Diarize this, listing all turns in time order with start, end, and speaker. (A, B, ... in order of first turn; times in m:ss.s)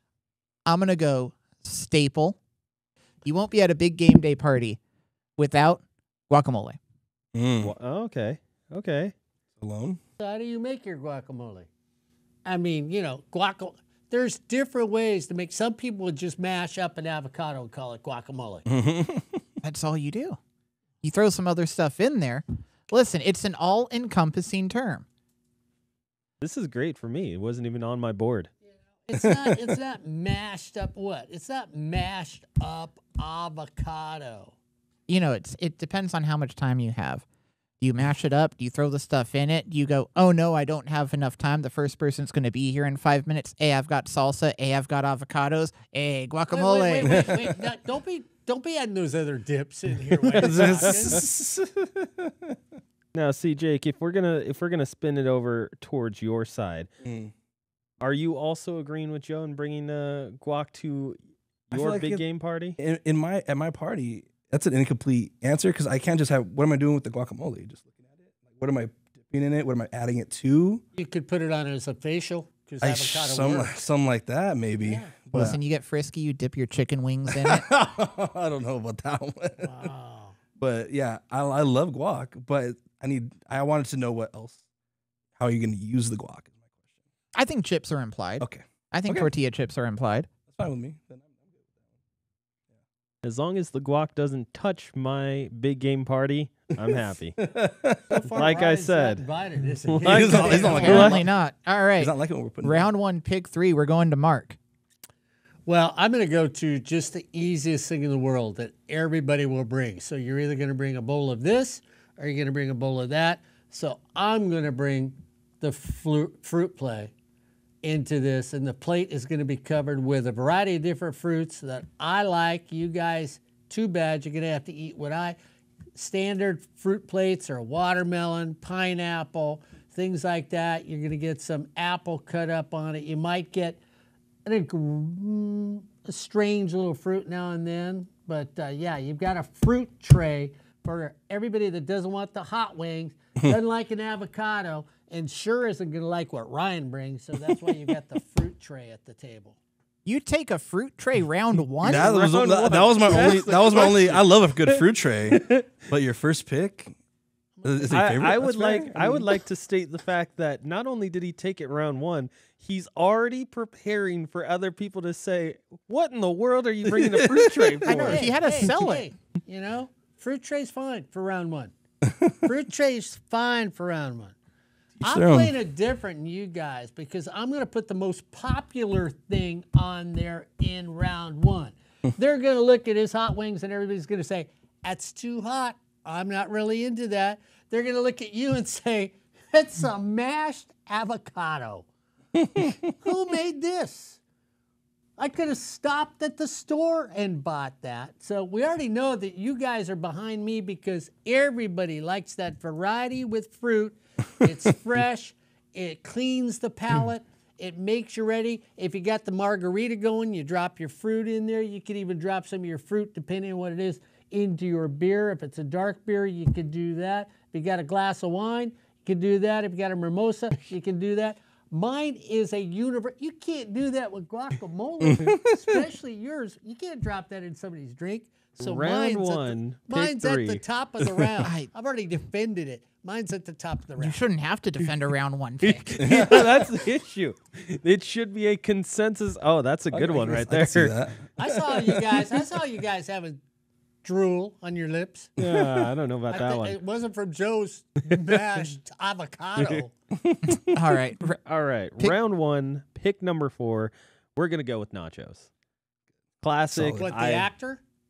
0:00.7-0:02.4 A
0:03.2-0:04.8 A
0:05.4-0:06.8 A
0:07.3-0:07.7 B
0:07.6-0:09.1 C
0:09.6-0:10.0 B
0:10.2-0:11.7 D
0:12.4-0:18.6 D
0:18.7-0:19.4 B
0:19.6-0:20.4 A
0:21.0-0:25.0 A
0:26.4-0:28.5 C
0:29.0-0:34.5 D
0:29.2-0:29.7 B
0:35.1-0:37.2 A
0:37.8-0:47.3 A
0:46.5-0:51.2 D
0:50.3-0:51.2 C
0:50.4-0:52.6 B
0:53.1-0:56.9 C
0:57.0-0:57.3 B
0:58.0-1:01.2 C
1:01.7-1:02.8 C
1:01.7-1:02.2 B
1:02.8-1:10.8 B
1:11.0-1:13.8 D
1:12.8-1:15.6 B
1:14.8-1:15.2 D
1:15.3-1:17.7 A
1:17.4-1:19.9 B
1:19.6-1:20.3 D
1:20.6-1:24.6 B
1:25.4-1:26.8 B
1:27.3-1:30.3 A
1:28.4-1:29.3 B
1:30.5-1:31.7 B
1:33.2-1:37.4 C
1:36.8-1:38.1 B
1:38.1-1:41.2 D
1:38.3-1:39.3 C
1:39.9-1:41.2 C
1:40.0-1:41.2 B
1:40.5-1:44.6 A
1:42.0-1:42.8 B
1:45.6-1:57.1 D
1:57.8-2:05.4 D
2:05.9-2:13.8 D
2:14.4-2:29.6 D
2:30.0-2:33.2 A
2:31.8-2:37.0 B
2:31.8-2:35.6 C
2:37.6-2:37.9 D
2:37.6-2:39.2 B
2:37.9-2:48.3 C
2:46.8-2:47.8 B
2:47.8-2:49.1 A
2:47.9-2:51.7 D
2:52.0-2:52.4 B
2:52.4-2:54.3 D
2:55.0-3:11.8 D
2:55.0-2:55.5 B
3:12.4-3:12.8 B
3:12.9-3:14.2 D
3:15.2-3:54.2 D
3:45.0-3:45.4 B
3:48.6-3:50.6 C
3:51.4-3:51.7 A
3:54.0-3:56.2 A
3:55.6-4:01.0 C
3:56.0-3:56.6 B
3:59.9-4:01.2 B
4:01.4-4:03.4 D
4:04.0-4:05.3 D
4:05.4-4:06.8 C
4:05.4-4:05.9 B
4:06.3-4:09.9 D
4:09.6-4:09.8 C
4:10.2-4:10.7 B
4:10.7-4:11.4 A
4:11.3-4:15.5 C
4:16.4-4:17.5 C
4:16.7-4:17.1 B
4:17.0-4:17.8 D